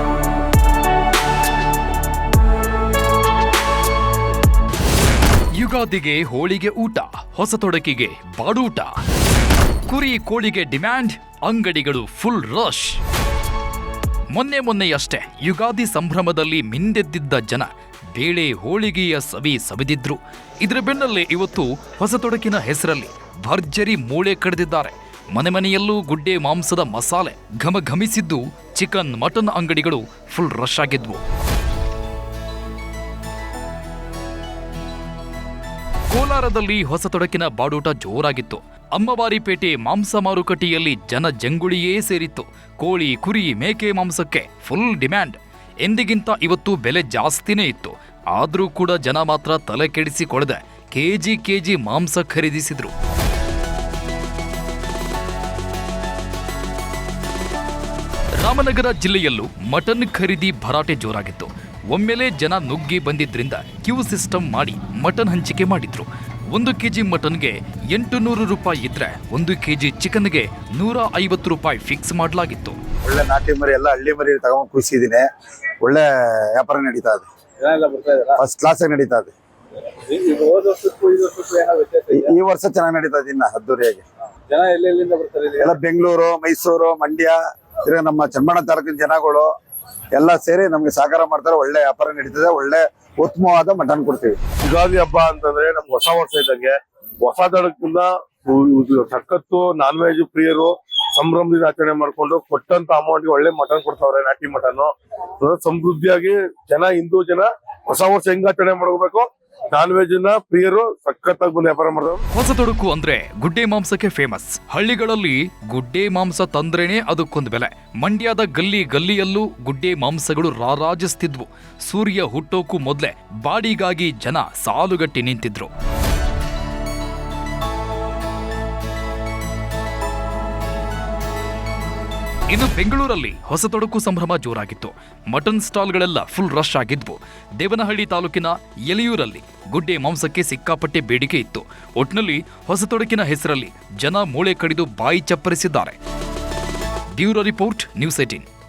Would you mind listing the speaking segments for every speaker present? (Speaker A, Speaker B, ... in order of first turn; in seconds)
Speaker A: 5.6-8.9, 9.9-13.0, 14.3-31.2, 36.1-52.9, 58.4-72.8, 112.3-125.7, 132.5-146.0, 147.2-148.5
Speaker B: 73.0-75.3, 75.8-77.3, 78.4-79.3, 82.1-84.0, 85.6-89.5, 90.1-94.4
Speaker C: 77.6-78.4, 80.0-82.3, 84.5-85.7
Speaker D: 94.7-112.2